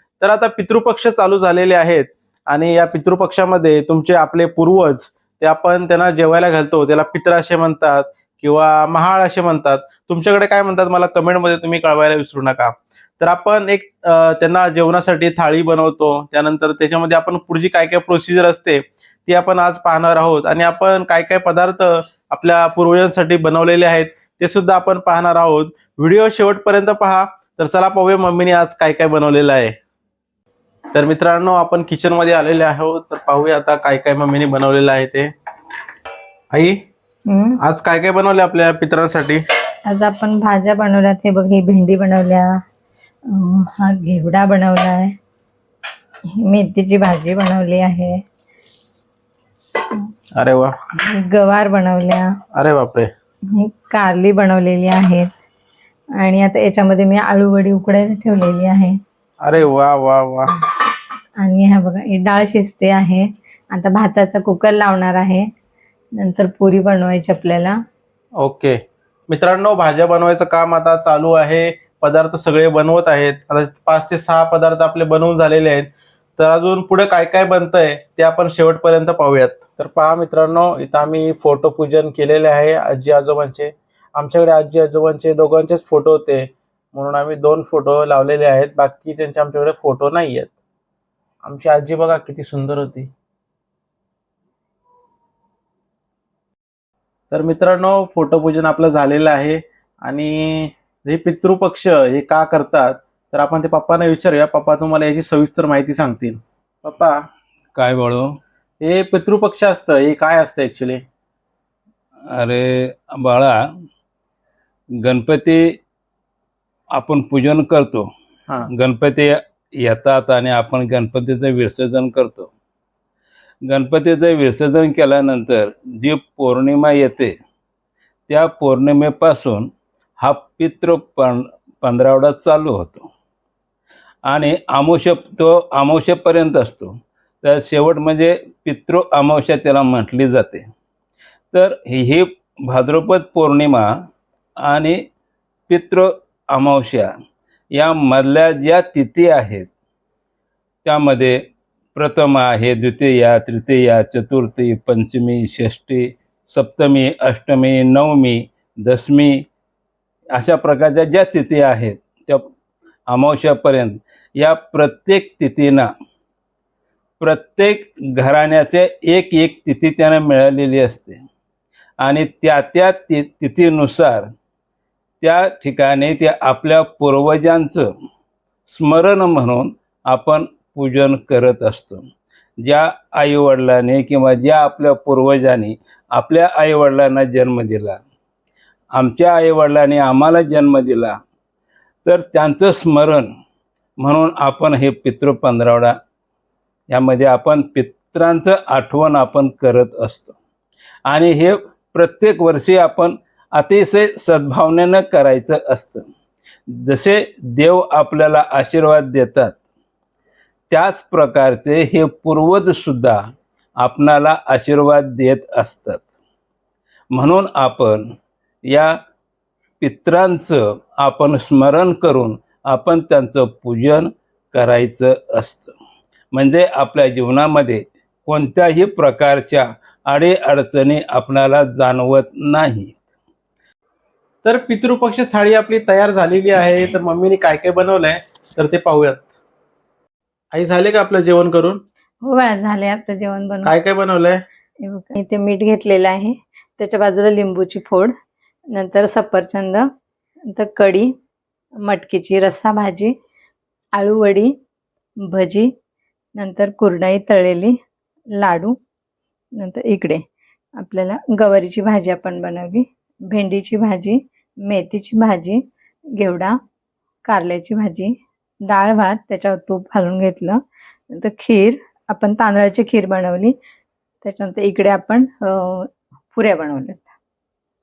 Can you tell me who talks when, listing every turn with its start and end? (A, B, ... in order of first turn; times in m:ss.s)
0:00.2-0:29.8 A
0:30.9-0:35.3 A
0:36.5-0:36.8 A
0:37.3-0:37.6 B
0:37.6-0:39.4 A
0:39.9-0:42.6 B
0:43.3-0:45.1 B
0:46.4-0:48.2 B
0:50.4-0:50.7 A
0:51.1-0:52.3 B
0:52.6-0:53.1 A
0:53.5-0:55.3 B
0:56.2-0:59.0 B
0:59.4-1:00.5 A
1:01.4-1:05.5 B
1:06.2-1:07.8 B
1:08.4-1:08.8 A
1:09.3-1:30.6 A
1:31.4-1:33.1 A
1:37.3-1:47.2 A
1:47.7-1:48.4 C
1:48.8-1:51.0 A
1:52.3-1:53.7 C
1:55.0-1:55.8 C
1:56.9-1:58.1 C
1:58.7-2:02.5 C
2:03.7-2:07.4 C
2:08.3-2:13.1 C
2:14.3-2:20.7 C
2:21.5-2:24.0 C
2:24.6-2:25.0 C
2:25.7-2:27.1 C
2:27.7-2:29.7 C
2:30.8-2:31.4 C
2:32.0-2:39.5 C
2:40.3-2:42.5 C
2:43.1-2:45.9 C
2:47.2-2:51.3 C
2:52.0-2:54.3 C
2:55.2-2:57.9 C
2:58.7-3:02.1 C
3:02.6-3:08.0 C
3:08.9-3:11.2 C
3:12.0-3:13.3 C
3:14.0-3:16.0 C
3:16.9-3:20.4 C
3:21.1-3:26.1 C
3:26.7-3:29.6 C
3:30.7-3:36.1 C
3:37.1-3:38.1 C
3:38.7-3:39.0 C
3:39.8-3:45.7 C
3:46.3-3:53.0 C
3:54.4-3:59.3 A
4:00.5-4:01.8 A
4:02.2-4:03.7 B
4:03.6-4:04.4 A
4:04.8-4:08.1 B
4:08.7-4:09.9 B
4:10.5-4:11.1 B
4:11.9-4:13.1 B
4:14.0-4:14.5 B
4:15.3-4:15.7 B
4:16.4-4:17.8 B
4:18.4-4:18.8 B
4:19.6-4:20.2 B
4:20.8-4:25.6 B
4:26.2-4:26.6 B
4:27.3-4:28.1 B
4:28.7-4:33.6 B
4:34.2-4:37.1 B